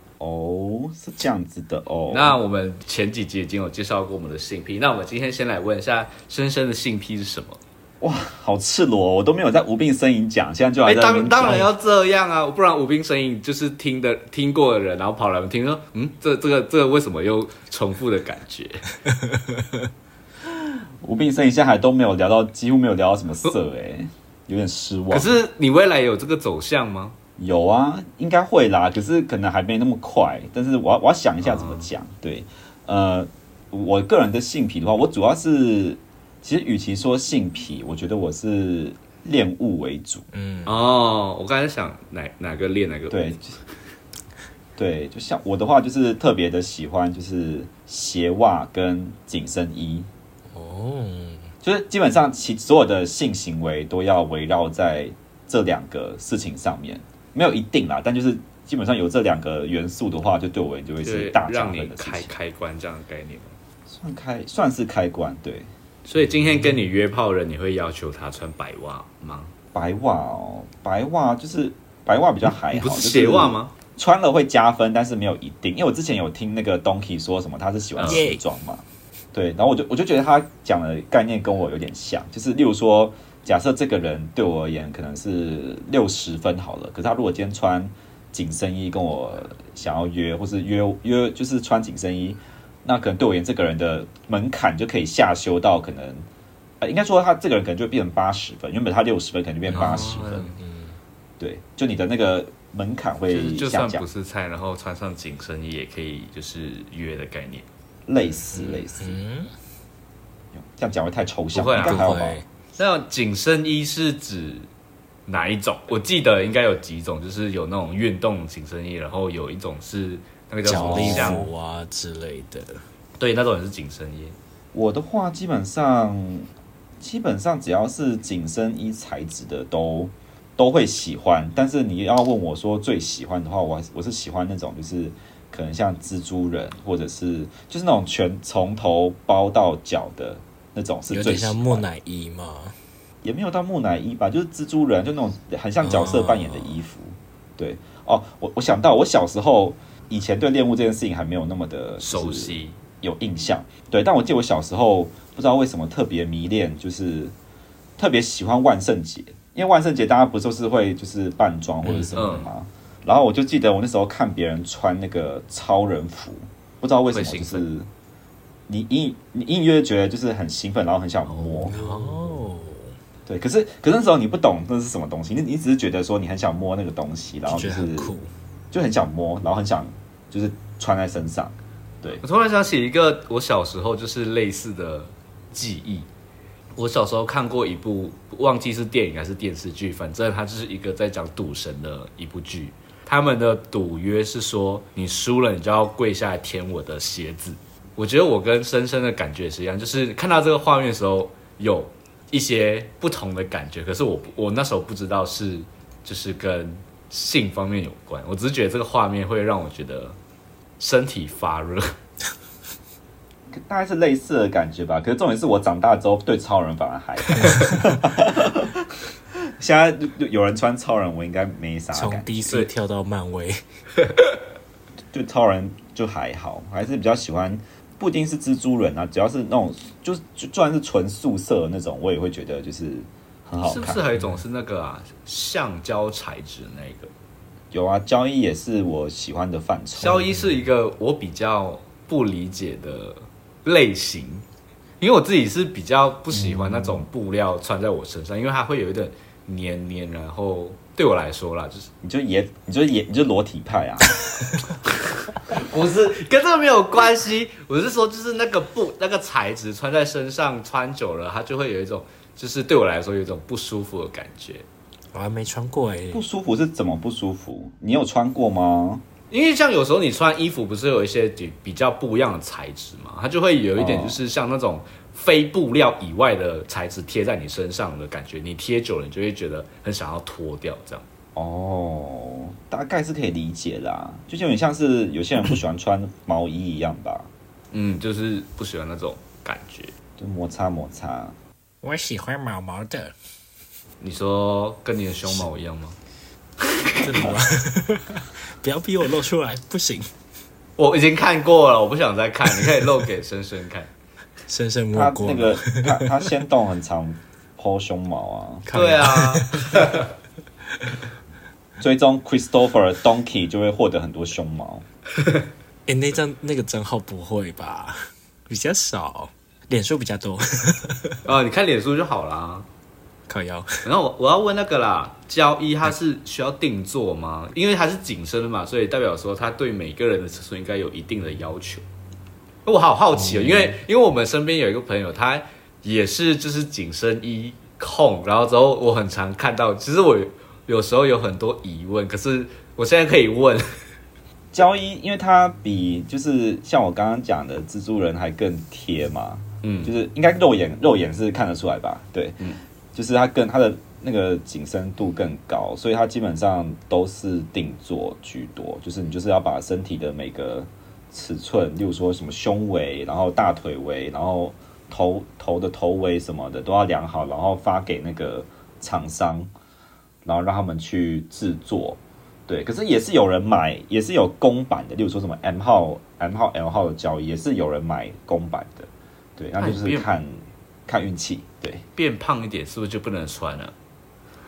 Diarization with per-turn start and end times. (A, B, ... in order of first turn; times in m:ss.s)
0:00.2-0:02.4 A
0:02.1-0:07.6 B
0:08.0-0:11.7 A
0:10.8-0:18.9 B
0:20.5-0:25.3 A
0:25.1-0:27.2 B
0:27.4-0:40.2 A
0:31.4-0:31.9 B
0:40.3-0:40.8 C
0:40.7-0:43.4 B
0:43.1-0:43.6 A
0:44.8-0:50.1 A
0:50.5-0:51.5 C
0:51.6-1:02.3 A
1:01.0-1:03.6 B
1:03.9-1:05.7 A
1:06.1-1:09.5 B
1:09.7-1:36.3 A
1:12.7-1:13.7 B
1:18.0-1:18.2 B
1:18.1-1:18.4 C
1:36.8-1:40.4 A
1:39.7-1:41.0 C
1:39.7-1:40.6 B
1:41.4-1:44.1 A
1:43.3-1:47.7 B
1:48.1-1:49.2 A
1:48.5-1:49.5 C
1:50.5-1:52.4 A
1:51.5-1:52.1 B
1:51.8-1:52.4 C
1:52.8-1:54.7 B
1:55.3-2:01.5 B
2:00.6-2:02.8 C
2:00.7-2:01.5 A
2:03.2-2:04.4 B
2:04.7-2:06.5 A
2:07.0-2:21.8 A
2:21.1-2:22.8 C
2:23.2-2:37.3 A
2:25.8-2:26.8 C
2:32.0-2:32.8 B
2:38.0-2:47.9 A
2:41.8-2:42.3 C
2:42.2-2:42.5 B
2:47.1-2:47.7 B
2:48.7-2:51.7 A
2:51.3-2:52.4 B
2:51.7-2:52.9 C
2:53.3-2:58.1 A
2:57.5-2:58.3 C
2:58.7-3:02.2 A
3:02.2-3:06.1 B
3:06.8-3:30.2 B
3:30.8-3:31.9 B
3:33.5-3:38.9 A
3:39.4-3:42.5 A
3:41.9-3:43.6 C
3:45.1-3:54.0 A
3:53.6-3:57.1 B
3:57.7-4:00.3 A
4:00.0-4:04.5 B
4:05.0-4:11.9 B
4:06.3-4:07.1 A
4:12.0-4:14.2 A
4:14.9-4:24.6 B
4:25.1-4:26.2 C
4:26.1-4:29.0 A
4:29.3-4:41.0 B
4:33.8-4:34.2 A
4:41.4-4:47.3 A
4:47.7-4:49.9 B
4:50.2-4:51.4 A
4:51.8-4:53.1 C
4:54.0-4:56.0 B
4:56.7-4:57.3 B
4:57.0-5:00.1 C
5:00.8-5:03.9 B
5:04.5-5:06.1 C
5:04.9-5:08.7 A
5:08.7-5:09.9 C
5:08.7-5:10.1 B
5:11.8-5:14.8 A
5:15.9-5:21.2 C
5:21.2-5:22.7 B
5:23.3-5:23.8 C
5:23.8-5:31.8 B
5:32.7-5:43.8 B
5:33.2-5:33.8 C
5:44.5-5:52.4 A
5:49.6-5:49.9 B
5:52.9-6:09.5 A
6:10.2-6:21.8 A
6:19.6-6:20.1 B
6:22.0-6:23.7 B